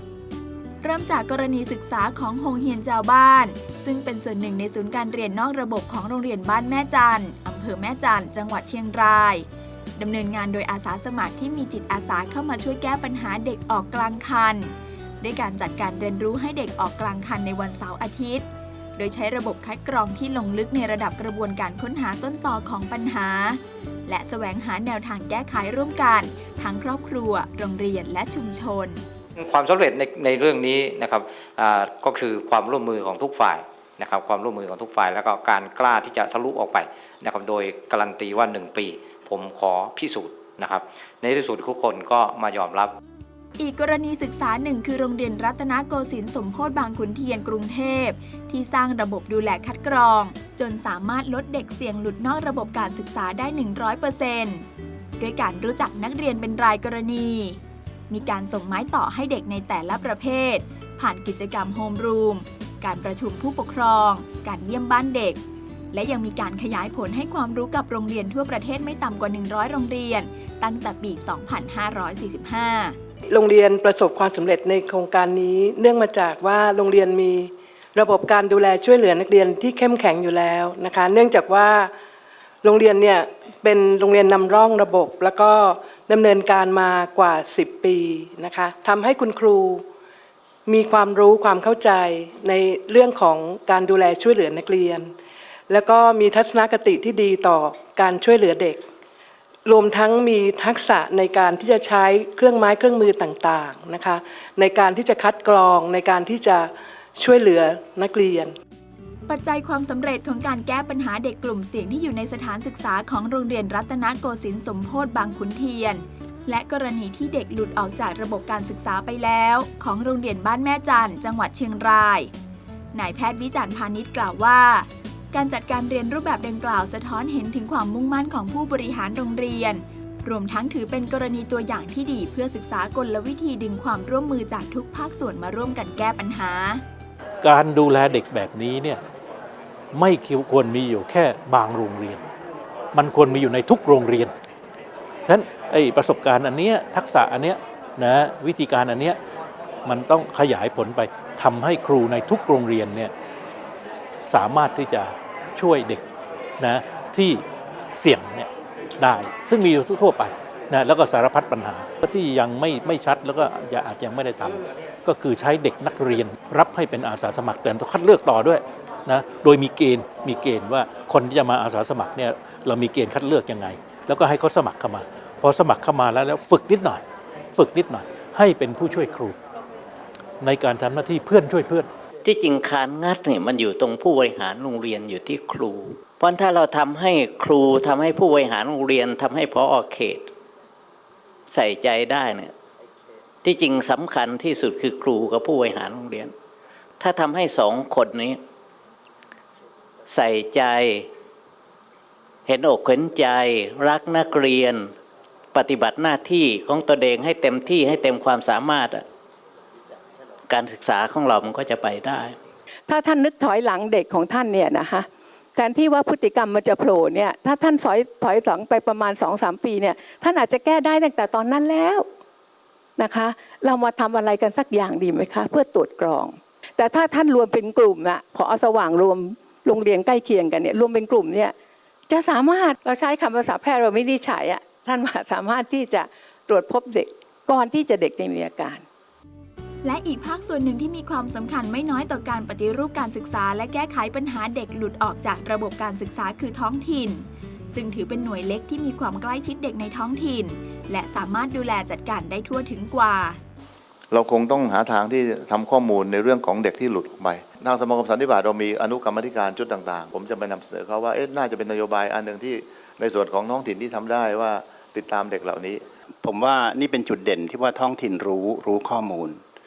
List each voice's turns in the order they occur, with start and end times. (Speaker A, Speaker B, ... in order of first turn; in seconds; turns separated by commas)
Speaker A: 0.8-29.0, Speaker B: 29.4-42.9, Speaker A: 43.6-54.7, Speaker A: 55.2-73.0, Speaker C: 73.3-81.9, Speaker C: 82.6-89.8, Speaker C: 90.7-95.1, Speaker C: 95.7-98.8, Speaker C: 99.7-108.5, Speaker A: 109.3-122.3, Speaker A: 122.9-136.8, Speaker D: 137.4-139.0, Speaker D: 139.9-142.2, Speaker D: 142.9-144.3, Speaker D: 145.2-149.2, Speaker D: 149.9-153.1, Speaker D: 154.2-156.1, Speaker D: 156.6-157.4, Speaker D: 158.0-177.0, Speaker D: 177.6-179.4, Speaker D: 180.4-181.9, Speaker E: 182.2-190.3, Speaker E: 191.5-192.5, Speaker E: 193.4-196.3, Speaker E: 197.0-198.4, Speaker E: 200.1-201.1, Speaker E: 202.5-204.9, Speaker E: 205.5-209.1, Speaker E: 210.5-212.4, Speaker F: 212.9-222.1, Speaker F: 223.0-231.5, Speaker F: 232.1-238.8, Speaker A: 239.8-253.4, Speaker G: 254.1-265.8, Speaker H: 266.2-269.4